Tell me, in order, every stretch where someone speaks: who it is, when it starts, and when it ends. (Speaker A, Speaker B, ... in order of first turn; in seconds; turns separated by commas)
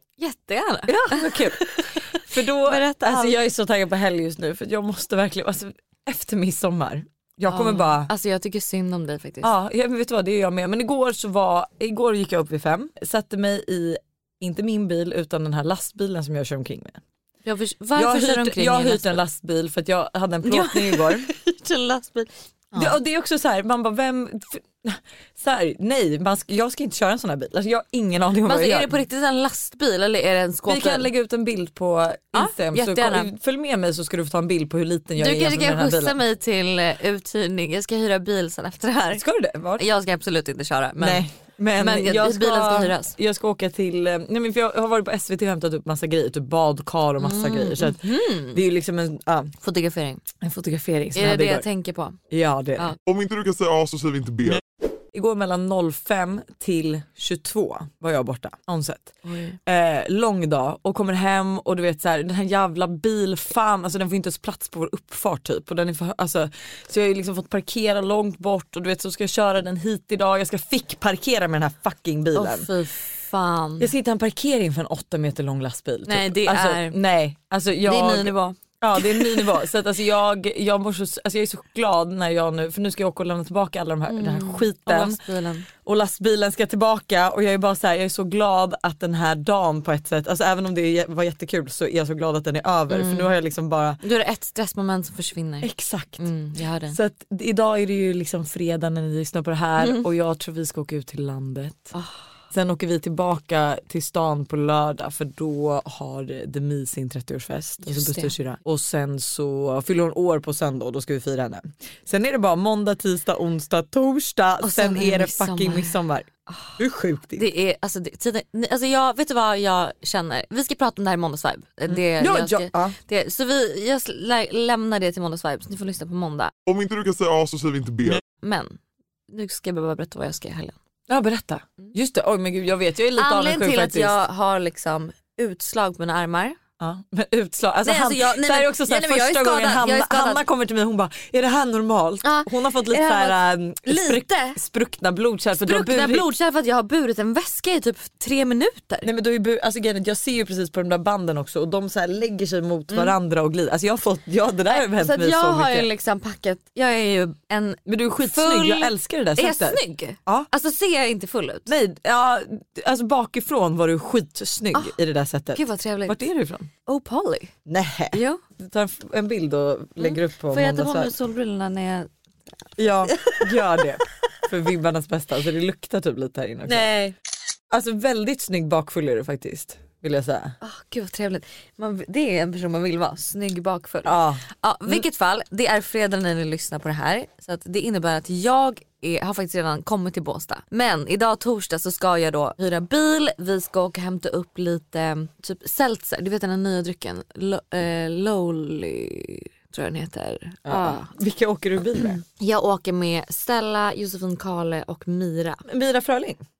Speaker A: 0.2-3.4, Speaker B: 0.9-8.1, Speaker A: 7.5-9.5, Speaker B: 9.4-17.0, Speaker A: 17.4-19.2, Speaker B: 17.9-21.3, Speaker A: 20.4-23.0, Speaker B: 22.7-28.9, Speaker A: 28.4-31.1, Speaker B: 30.6-36.2, Speaker A: 32.3-33.3, Speaker A: 35.2-39.2, Speaker B: 39.1-39.8, Speaker A: 39.8-41.2, Speaker B: 41.0-49.5, Speaker A: 41.8-43.1, Speaker A: 47.2-48.6, Speaker A: 49.6-50.2, Speaker B: 50.4-51.6, Speaker A: 51.1-52.2, Speaker B: 52.3-52.9, Speaker C: 53.0-54.6, Speaker B: 55.1-72.7, Speaker A: 59.2-59.6, Speaker A: 72.3-73.9, Speaker B: 73.8-85.2, Speaker A: 76.1-77.0, Speaker A: 77.8-79.5, Speaker A: 84.1-85.7, Speaker B: 85.8-94.0, Speaker A: 92.9-93.3, Speaker A: 94.0-97.0, Speaker B: 95.6-96.2, Speaker B: 96.9-101.9, Speaker A: 99.8-100.0, Speaker A: 101.9-102.2, Speaker B: 102.5-116.3, Speaker A: 107.8-108.3, Speaker A: 114.6-116.8, Speaker B: 116.8-117.5, Speaker A: 117.3-126.5, Speaker B: 121.9-123.0, Speaker C: 126.7-128.2, Speaker A: 128.4-128.8, Speaker A: 129.3-130.8, Speaker B: 131.1-134.2, Speaker A: 133.2-136.6, Speaker B: 136.8-146.3, Speaker A: 137.8-140.4, Speaker A: 142.2-144.6, Speaker A: 145.6-149.1, Speaker B: 149.0-155.8, Speaker A: 154.7-161.7, Speaker B: 157.8-160.5, Speaker B: 161.7-166.7, Speaker A: 165.5-166.1, Speaker A: 166.8-167.5, Speaker B: 167.7-171.1, Speaker A: 168.1-168.4, Speaker A: 170.0-172.1, Speaker B: 172.8-176.9, Speaker A: 173.1-173.4, Speaker A: 176.7-177.1, Speaker B: 177.7-180.6, Speaker A: 180.6-201.1, Speaker B: 184.0-184.9, Speaker B: 200.6-202.2, Speaker A: 202.0-205.6, Speaker B: 205.7-206.4